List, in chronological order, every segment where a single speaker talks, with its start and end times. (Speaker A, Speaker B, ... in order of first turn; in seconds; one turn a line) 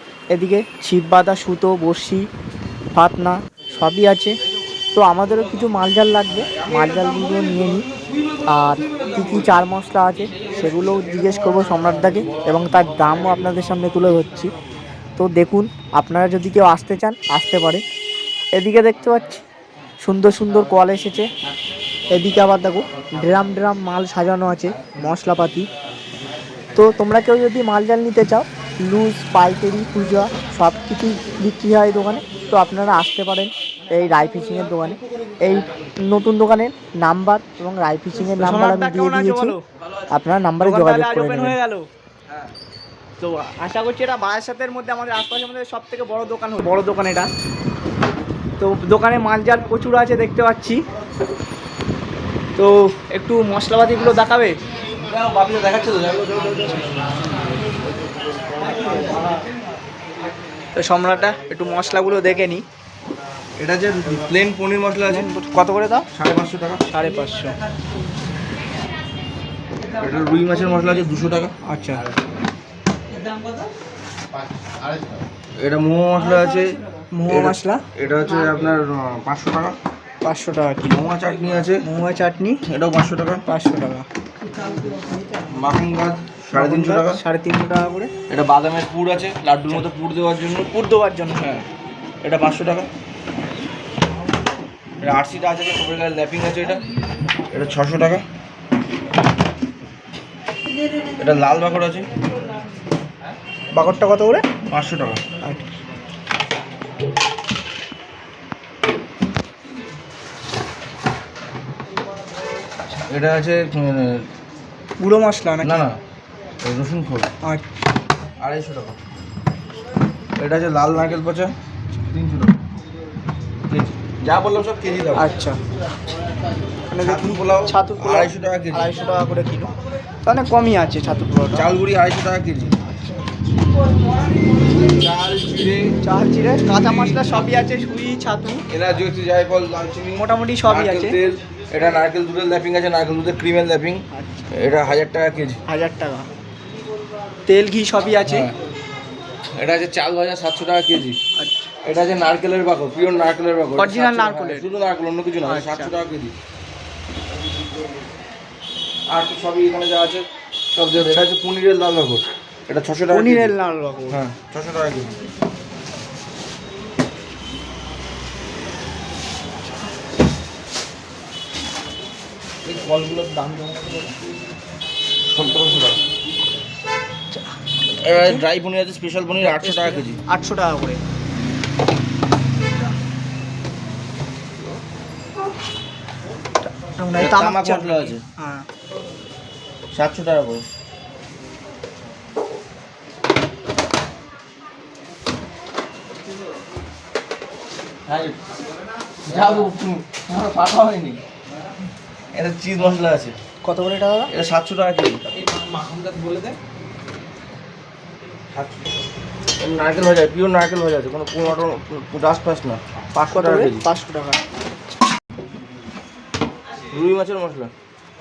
Speaker A: 0.3-2.3
Speaker A: 2.9-4.4
Speaker A: 5.0-7.9
Speaker A: 8.5-14.5
Speaker A: 15.2-17.8
Speaker A: 18.6-19.4
Speaker A: 20.0-21.3
Speaker A: 22.1-25.7
Speaker A: 26.8-39.6
Speaker B: 38.4-39.6
Speaker A: 40.1-41.6
Speaker B: 40.6-41.9
Speaker B: 43.2-47.3
Speaker B: 48.6-50.9
Speaker B: 52.6-54.6
Speaker C: 55.0-56.9
Speaker B: 60.8-62.6
Speaker C: 63.6-65.3
Speaker B: 65.1-66.1
Speaker C: 66.1-66.9
Speaker B: 66.9-67.6
Speaker C: 70.0-71.5
Speaker B: 71.7-72.0
Speaker C: 75.6-79.8
Speaker B: 77.2-77.8
Speaker B: 80.2-81.0
Speaker C: 80.8-81.8
Speaker B: 81.8-82.6
Speaker C: 82.7-83.5
Speaker B: 83.5-84.0
Speaker C: 85.5-87.2
Speaker A: 86.5-87.1
Speaker B: 87.0-88.1
Speaker C: 88.3-90.7
Speaker B: 90.7-91.5
Speaker C: 91.3-91.7
Speaker C: 92.2-92.9
Speaker C: 95.0-96.8
Speaker C: 97.5-98.3
Speaker C: 101.2-102.1
Speaker B: 103.8-104.5
Speaker C: 104.7-105.2
Speaker C: 113.1-114.3
Speaker B: 115.0-115.8
Speaker C: 115.6-116.0
Speaker C: 116.6-117.3
Speaker C: 118.4-119.0
Speaker C: 120.4-121.5
Speaker C: 122.1-122.6
Speaker C: 123.7-125.3
Speaker B: 125.2-125.6
Speaker B: 126.9-129.7
Speaker C: 127.0-128.9
Speaker B: 130.2-131.7
Speaker C: 131.5-132.8
Speaker C: 134.9-135.9
Speaker B: 136.0-138.7
Speaker C: 136.7-137.4
Speaker C: 138.7-145.6
Speaker B: 140.2-141.2
Speaker B: 145.7-146.3
Speaker B: 147.5-148.5
Speaker C: 148.2-148.5
Speaker C: 149.6-151.2
Speaker B: 151.4-151.7
Speaker C: 151.8-156.3
Speaker B: 153.8-154.7
Speaker B: 155.4-155.9
Speaker C: 159.1-163.5
Speaker B: 163.1-164.2
Speaker C: 164.1-165.1
Speaker C: 172.6-174.2
Speaker C: 175.2-176.0
Speaker C: 178.0-180.2
Speaker B: 179.4-181.0
Speaker B: 186.8-188.7
Speaker C: 187.2-188.2
Speaker C: 189.9-190.7
Speaker C: 198.1-198.4
Speaker C: 199.3-201.2
Speaker C: 202.3-203.4
Speaker B: 203.7-204.2
Speaker C: 204.3-205.2
Speaker C: 208.5-208.8
Speaker C: 209.6-213.8
Speaker B: 213.2-214.4
Speaker C: 216.9-217.7